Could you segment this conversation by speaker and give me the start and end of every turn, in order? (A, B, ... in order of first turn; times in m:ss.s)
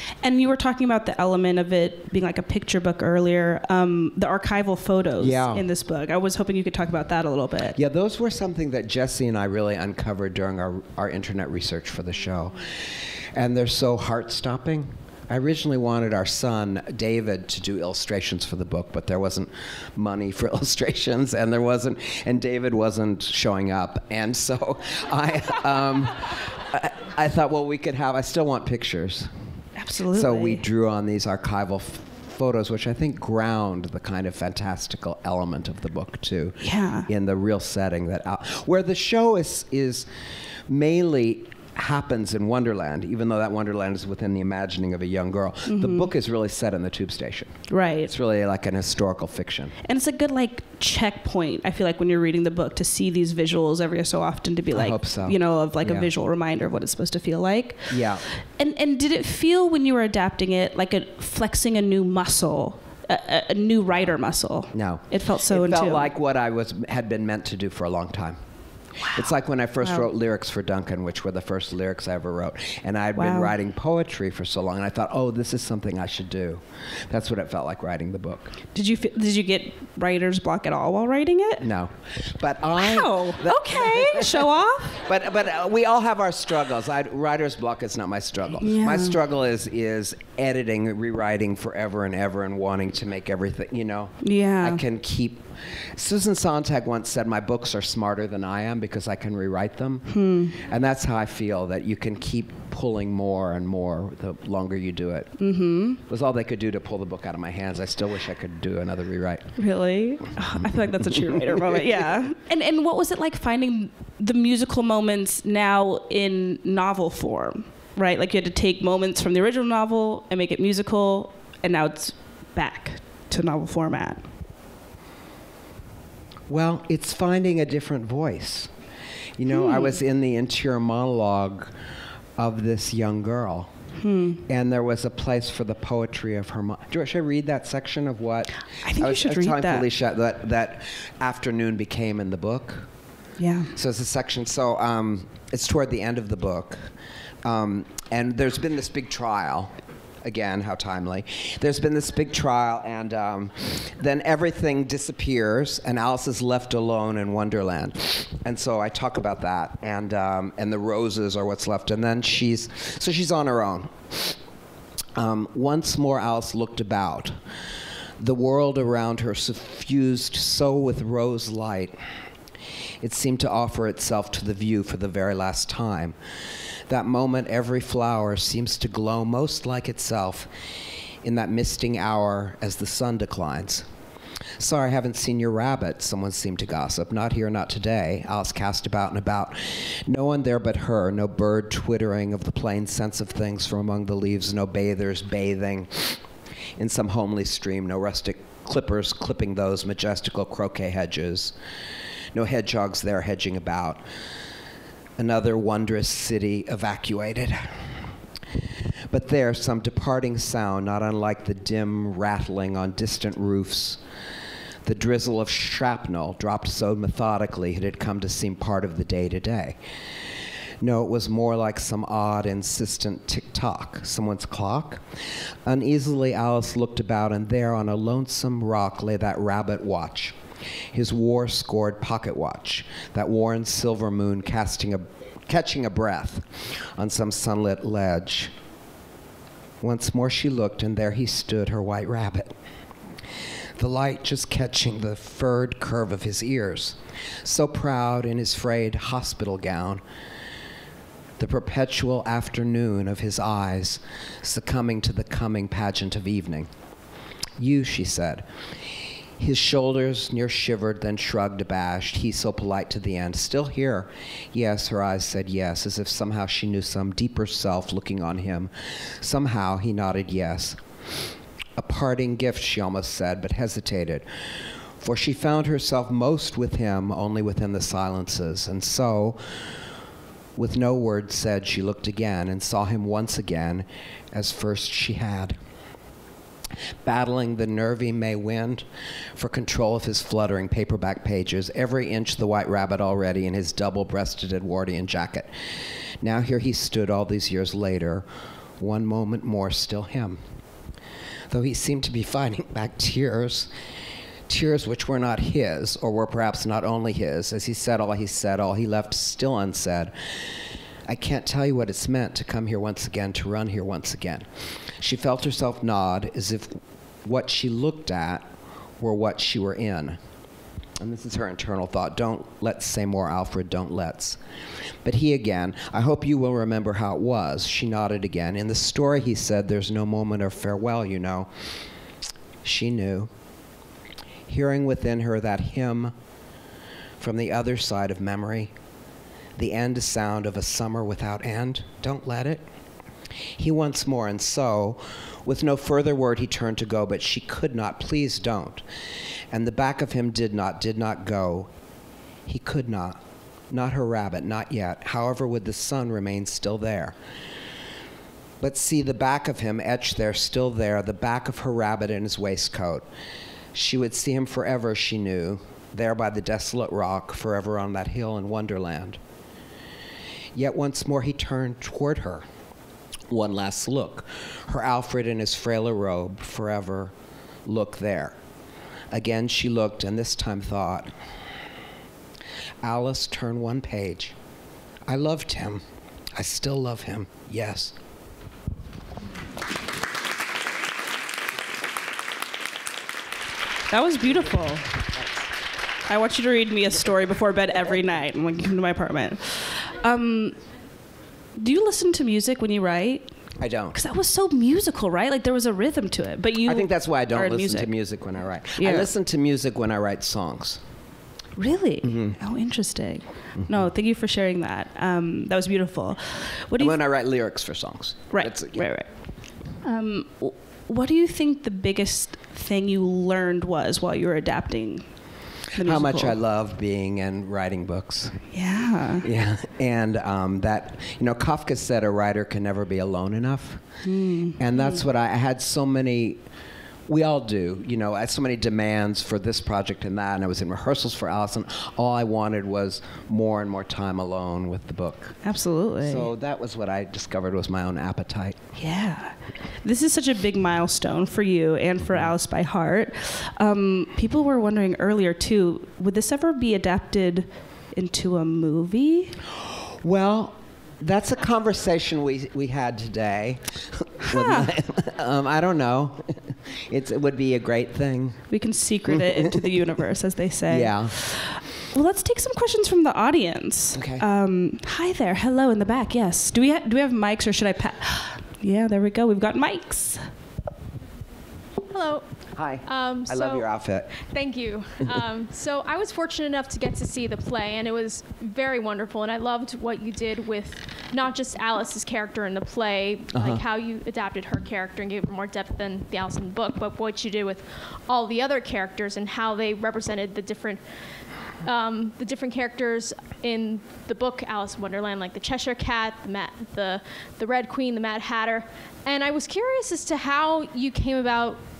0:00.2-0:07.8 A
0:05.2-0:05.7 B
0:07.7-0:29.3 B
0:29.8-0:30.6 A
0:30.1-0:40.1 B
0:36.6-0:37.1 A
0:40.7-0:49.7 B
0:45.7-0:46.1 A
0:47.7-0:48.1 A
0:49.8-1:06.1 A
0:54.7-0:56.1 B
0:57.9-0:58.2 B
1:04.7-1:08.4 B
1:09.1-1:18.6 B
1:09.8-1:10.1 A
1:13.2-1:13.5 A
1:18.7-1:21.6 A
1:21.6-1:45.4 B
1:22.8-1:25.0 A
1:28.6-1:29.2 A
1:34.2-1:34.8 A
1:40.1-1:40.6 A
1:45.4-1:46.0 A
1:46.1-1:49.5 B
1:49.6-2:04.2 A
1:50.4-1:51.9 B
2:06.5-2:08.7 B
2:09.4-2:11.7 B
2:09.5-2:10.0 A
2:12.4-2:13.7 B
2:14.0-2:14.4 A
2:14.4-2:22.9 B
2:18.8-2:19.8 A
2:23.4-2:23.7 A
2:23.7-2:26.9 B
2:27.4-2:44.4 B
2:45.1-2:47.4 B
2:48.2-2:52.0 B
2:53.0-2:56.2 B
2:56.9-3:00.5 B
3:01.2-3:03.8 B
3:04.6-3:16.2 B
3:16.8-3:21.6 B
3:22.3-3:24.0 B
3:25.2-3:27.9 B
3:29.1-3:34.0 B
3:34.8-3:39.8 B
3:40.8-3:45.0 B
3:45.6-3:50.4 B
3:50.9-3:58.5 B
3:59.8-4:02.5 B
4:03.8-4:10.0 B
4:11.4-4:16.7 B
4:17.6-4:18.5 B
4:19.4-4:30.8 B
4:31.8-4:34.2 B
4:35.0-4:39.4 B
4:40.6-4:45.6 B
4:47.0-4:55.5 B
4:56.2-4:58.2 B
4:58.8-5:00.4 B
5:01.5-5:03.7 B
5:04.5-5:10.1 B
5:11.0-5:14.5 B
5:15.0-5:18.5 B
5:19.0-5:20.2 B
5:21.0-5:24.4 B
5:25.0-5:31.5 B
5:32.6-5:33.3 B
5:34.5-5:36.1 B
5:37.2-5:38.7 B
5:39.6-5:42.6 B
5:43.6-5:48.8 B
5:49.5-5:51.7 B
5:52.4-5:57.2 B
5:58.6-6:03.0 B
6:03.7-6:09.2 B
6:10.5-6:12.4 B
6:13.3-6:17.1 B
6:17.6-6:18.4 B
6:19.1-6:21.1 B
6:22.8-6:24.4 B
6:25.1-6:28.0 B
6:33.9-6:35.0 A
6:36.1-6:40.6 A
6:41.6-6:43.3 A
6:43.6-6:44.0 B
6:43.9-6:47.9 A
6:46.6-6:50.8 B
6:48.8-6:49.1 A
6:51.6-6:57.0 A
6:52.0-6:52.4 B
6:56.8-6:58.9 B
6:58.3-6:59.1 A
6:59.8-7:05.0 A
7:05.7-7:06.4 A
7:05.8-7:08.4 B
7:08.5-7:09.2 A
7:09.2-7:13.8 B
7:14.0-7:14.6 A
7:14.6-7:16.4 B
7:17.1-7:25.4 B
7:25.4-7:26.3 A
7:26.0-7:28.6 B
7:28.8-7:39.4 A
7:40.0-7:48.4 B
7:44.3-7:44.7 A
7:48.5-8:00.2 A
7:49.1-7:49.7 B
7:50.7-7:51.1 B
7:53.9-7:54.2 B
8:01.9-8:02.2 C
8:02.6-8:04.1 B
8:02.8-8:03.7 C
8:04.2-8:20.8 C
8:13.3-8:13.6 B
8:21.6-8:31.6 C